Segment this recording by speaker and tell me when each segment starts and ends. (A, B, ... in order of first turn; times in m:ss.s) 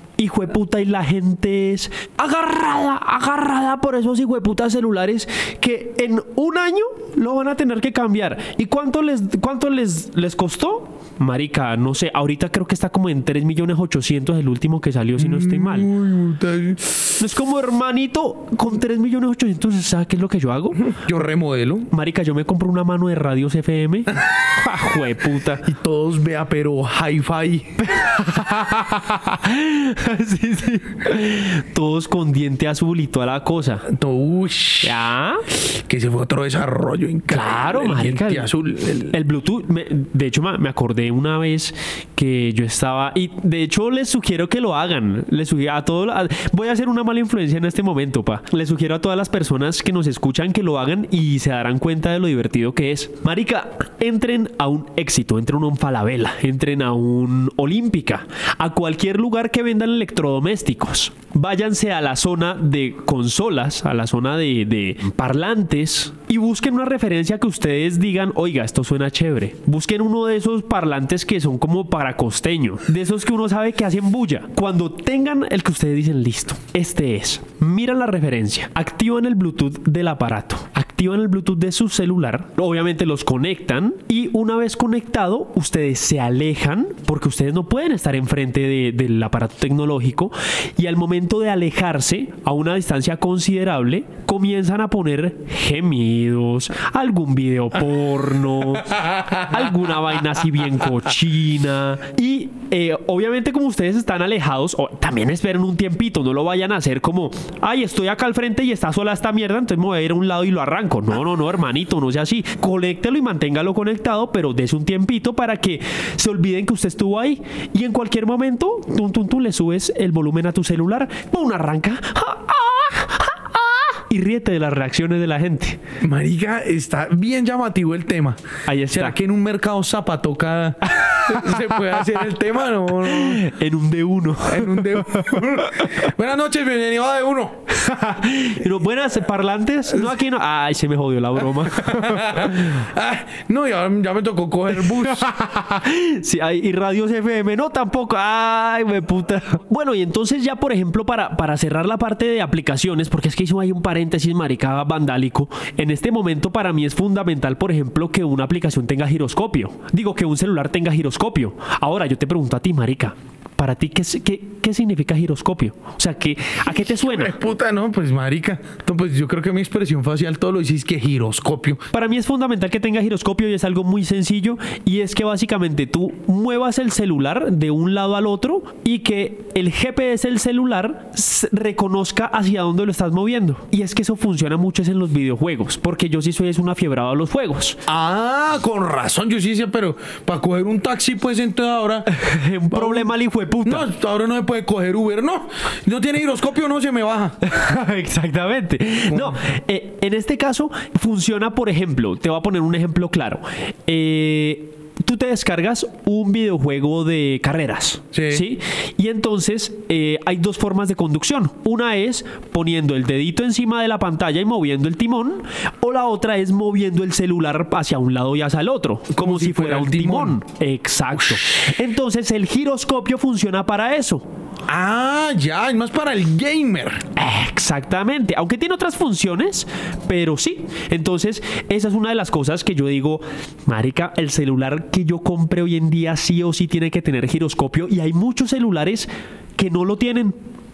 0:00.2-0:15.9 A
0:15.2-0:17.2 B
0:17.2-0:20.9 A
0:20.8-0:21.9 B
0:21.9-0:25.6 A
0:25.6-0:27.8 B
0:27.8-0:33.9 A
0:33.9-0:39.1 B
0:34.8-0:35.5 A
0:37.3-0:38.5 A
0:39.1-2:05.8 A
1:39.0-1:39.4 B
2:06.0-2:13.5 B
2:08.7-2:09.2 A
2:10.9-2:11.6 A
2:13.0-2:16.0 A
2:14.4-2:17.6 B
2:17.7-2:22.4 A
2:21.6-2:25.3 B
2:25.2-2:47.3 A
2:46.6-2:51.8 B
2:51.9-3:07.8 A
3:07.8-3:12.1 B
3:12.1-3:13.9 A
3:12.7-3:17.4 B
3:17.4-3:44.3 A
3:19.1-3:19.4 B
3:28.1-3:28.4 B
3:39.1-3:40.4 B
3:41.2-3:41.7 B
3:44.7-3:47.0 B
3:47.2-4:00.3 A